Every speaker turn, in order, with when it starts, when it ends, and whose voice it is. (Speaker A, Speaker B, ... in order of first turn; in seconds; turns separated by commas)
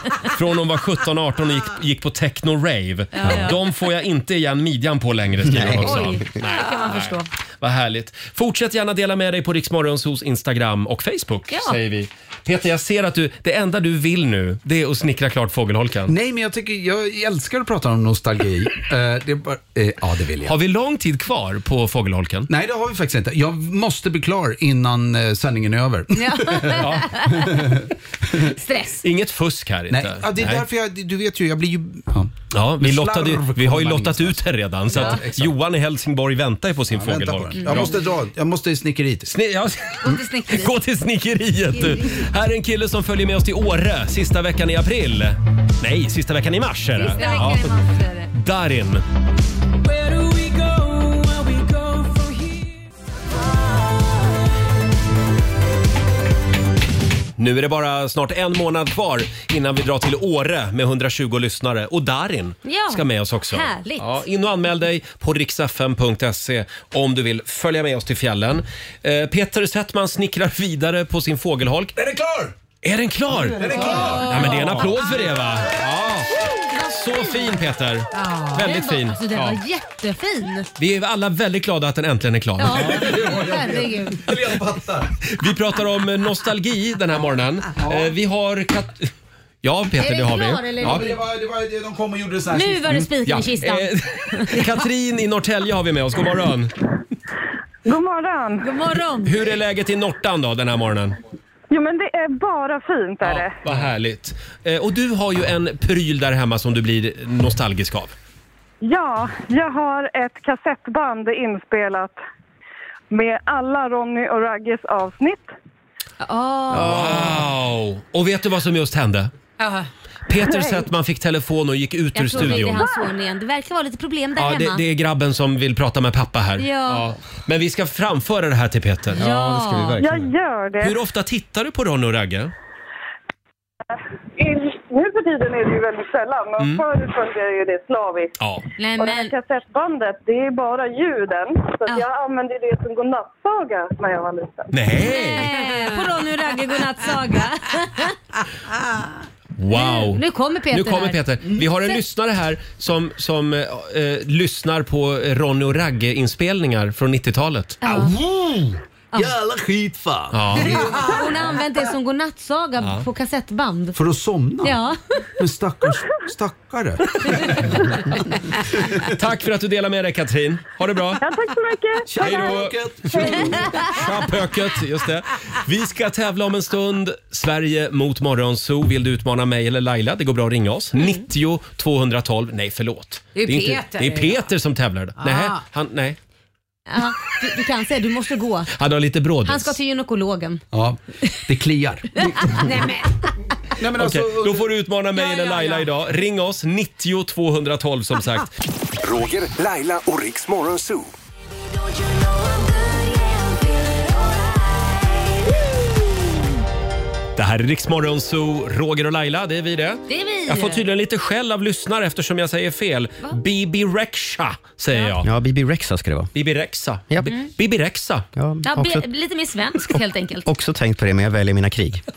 Speaker A: 0.2-16.1, Speaker B: 3.1-3.6, Speaker C: 5.4-6.2, Speaker B: 5.8-7.3, Speaker B: 11.5-11.8, Speaker D: 16.1-20.6, Speaker A: 20.4-22.5, Speaker D: 22.5-28.6, Speaker B: 26.1-27.5, Speaker A: 26.8-27.1, Speaker B: 28.5-29.0, Speaker A: 29.0-30.6, Speaker D: 29.9-35.6, Speaker A: 32.5-37.9, Speaker D: 36.9-39.3, Speaker B: 37.6-37.9, Speaker A: 39.3-47.7, Speaker B: 40.0-40.7, Speaker B: 41.7-42.2, Speaker B: 47.0-48.3, Speaker A: 48.3-49.0, Speaker E: 50.0-52.3, Speaker A: 57.4-71.9, Speaker B: 62.6-64.2, Speaker D: 72.0-72.5, Speaker A: 72.8-79.6, Speaker D: 73.3-75.6, Speaker B: 73.7-75.1, Speaker E: 73.7-74.5, Speaker B: 76.6-77.6, Speaker E: 78.1-78.7, Speaker B: 78.6-80.7, Speaker A: 80.8-83.2, Speaker B: 82.6-84.3, Speaker D: 82.6-85.1, Speaker A: 84.3-84.6, Speaker A: 85.3-89.1, Speaker D: 87.8-88.2, Speaker A: 89.6-91.0, Speaker B: 90.0-91.2, Speaker D: 90.8-93.1, Speaker B: 92.5-94.5, Speaker A: 93.3-96.7, Speaker F: 97.9-98.7, Speaker B: 98.6-99.4, Speaker A: 99.2-101.2, Speaker F: 101.7-103.6, Speaker A: 103.2-108.1, Speaker F: 108.8-112.2, Speaker F: 113.1-115.5, Speaker B: 116.2-117.3, Speaker A: 116.7-119.3, Speaker E: 119.6-119.9, Speaker A: 120.3-122.8, Speaker B: 120.5-120.8, Speaker B: 122.1-124.8, Speaker F: 122.4-123.1, Speaker A: 124.4-129.2, Speaker B: 126.6-127.2, Speaker B: 129.2-130.0, Speaker D: 129.2-130.2, Speaker C: 129.6-130.0, Speaker F: 130.0-131.0, Speaker A: 130.8-132.5, Speaker F: 134.4-138.3, Speaker B: 138.8-139.3, Speaker F: 139.0-144.7, Speaker A: 144.7-145.5, Speaker B: 145.0-148.2, Speaker E: 145.6-145.9, Speaker A: 149.6-157.8, Speaker B: 149.7-151.2, Speaker B: 157.8-158.1, Speaker D: 157.8-161.6, Speaker A: 160.3-160.7, Speaker B: 160.7-163.9, Speaker D: 163.9-164.8, Speaker B: 164.6-165.2, Speaker D: 165.4-168.0, Speaker D: 168.7-169.1, Speaker A: 169.2-171.2, Speaker F: 171.2-172.6, Speaker D: 172.1-173.9, Speaker A: 172.2-186.2, Speaker F: 173.1-174.1, Speaker E: 183.3-184.5, Speaker E: 185.2-185.6, Speaker B: 186.9-188.7, Speaker A: 188.7-189.8, Speaker B: 189.4-190.6, Speaker D: 190.7-192.2, Speaker B: 192.2-192.7, Speaker E: 192.5-193.1, Speaker D: 193.8-194.7, Speaker A: 194.0-198.5, Speaker E: 195.1-195.9, Speaker G: 199.0-201.1, Speaker A: 207.4-215.3, Speaker B: 210.1-210.8, Speaker B: 214.9-215.2, Speaker C: 215.2-216.3, Speaker A: 216.3-218.2, Speaker C: 218.4-219.1, Speaker B: 218.6-220.5, Speaker C: 220.4-222.1